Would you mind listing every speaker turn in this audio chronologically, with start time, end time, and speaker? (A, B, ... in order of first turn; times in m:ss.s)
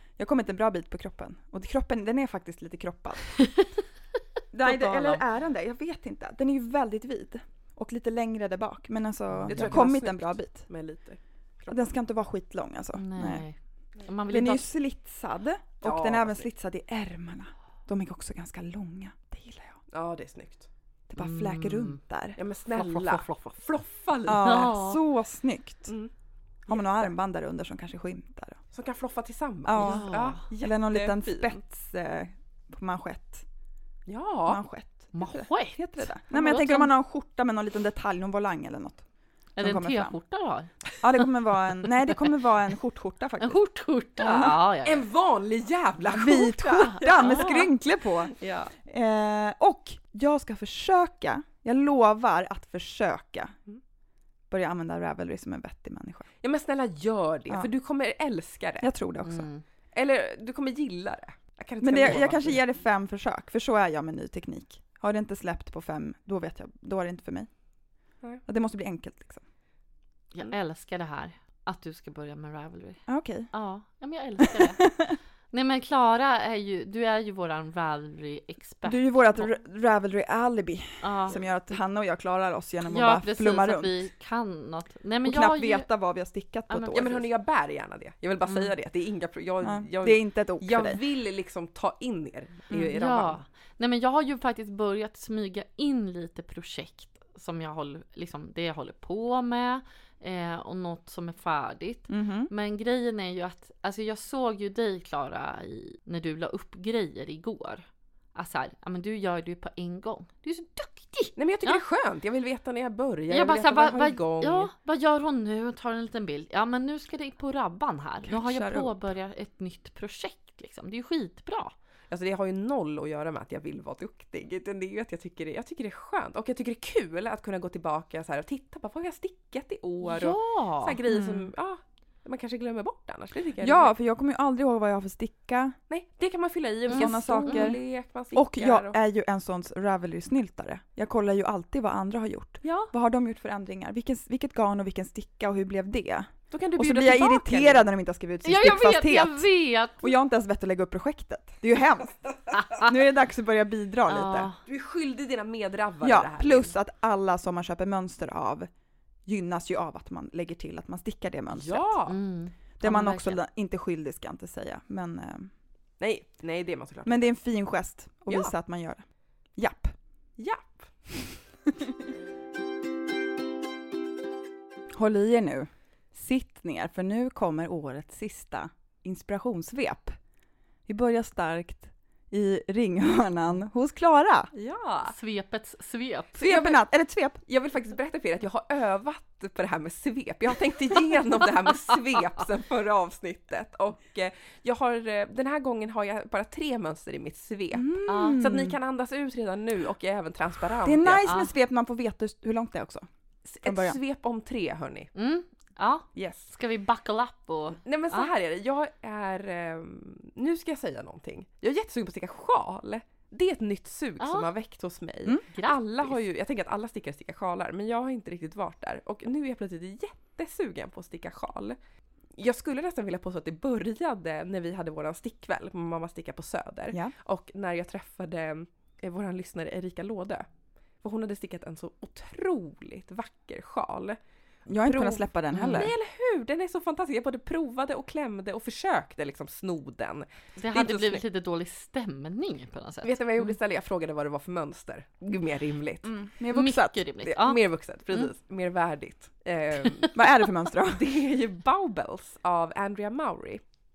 0:00.2-0:03.4 A
0:04.5-0:10.7 A
0:04.7-0:05.2 B
0:09.3-0:09.8 B
0:09.5-0:11.8 C
0:11.7-0:13.4 A
0:12.9-0:14.7 B
0:14.3-0:19.8 A
0:15.8-0:16.5 C
0:19.9-0:20.7 C
0:21.1-0:22.4 A
0:21.2-0:22.0 B
0:22.4-0:24.7 C
0:22.7-0:23.6 B
0:24.3-0:25.9 A
0:24.3-0:25.0 B
0:26.7-0:28.6 A
0:26.7-0:27.1 C
0:28.7-0:31.6 C
0:29.6-0:33.4 A
0:29.8-0:30.4 B
0:34.1-0:34.6 C
0:34.5-0:39.0 A
0:35.1-0:36.9 B
0:39.6-0:40.7 B
0:39.6-0:40.2 A
0:41.0-0:43.6 A
0:43.4-0:45.1 B
0:44.2-0:44.6 A
0:44.8-0:47.6 C
0:46.1-0:53.5 A
0:46.9-0:47.7 B
0:48.3-0:48.7 C
0:54.5-0:56.3 A
0:56.4-0:58.9 C
0:58.8-0:59.5 A
0:59.2-0:59.6 B
0:59.9-1:02.6 C
1:01.8-1:07.5 A
1:08.4-1:09.4 A
1:10.3-1:14.9 B
1:13.1-1:13.5 A
1:14.4-1:15.2 A
1:15.5-1:19.5 B
1:18.8-1:24.0 A
1:21.0-1:21.4 B
1:22.8-1:25.9 B
1:25.2-1:27.3 A
1:26.7-1:27.0 B
1:26.9-1:33.4 C
1:29.6-1:31.0 A
1:32.7-1:51.8 B
1:42.1-1:42.5 A
1:51.4-1:54.7 C
1:53.3-2:01.7 B
1:58.2-1:59.0 A
2:02.1-2:13.9 C
2:10.0-2:11.0 B
2:11.1-2:11.5 A
2:13.6-2:15.8 A
2:15.9-2:19.0 C
2:16.9-2:17.8 A
2:16.9-2:17.7 B
2:18.3-2:32.2 A
2:22.6-2:22.9 C
2:26.5-2:27.9 C
2:28.4-2:30.1 B
2:32.5-2:32.9 B
2:32.7-2:34.5 A
2:34.1-2:34.6 B
2:34.6-2:36.7 C
2:36.0-2:38.7 A
2:39.2-2:42.0 A
2:41.5-2:42.2 C
2:42.1-2:43.4 B
2:42.8-2:45.5 A
2:46.0-2:47.3 C
2:47.0-2:49.0 A
2:48.3-2:48.5 C
2:49.6-2:49.9 A
2:50.4-2:50.9 C
2:51.7-2:51.9 A
2:54.9-3:00.2 A
3:00.9-3:04.5 A
3:04.5-3:05.1 C
3:05.0-3:06.4 B
3:06.4-3:07.4 A
3:06.4-3:06.8 C
3:07.4-3:21.2 C
3:17.7-3:18.8 A
3:18.1-3:18.4 B
3:20.8-3:23.1 A
3:21.2-3:21.5 B
3:23.5-3:25.1 C
3:23.6-3:24.0 A
3:25.1-3:28.3 B
3:26.1-3:26.5 C
3:27.8-3:41.8 C
3:34.2-3:34.5 B
3:35.5-3:36.2 B
3:42.4-3:50.4 C
3:51.0-3:54.2 C
3:54.7-3:55.9 A
3:54.8-4:01.2 C
3:55.5-3:55.9 B
4:00.6-4:03.5 B
4:03.0-4:06.1 C
4:06.0-4:07.0 A
4:06.5-4:07.6 B
4:07.2-4:10.1 C
4:10.1-4:11.1 A
4:10.8-4:13.6 C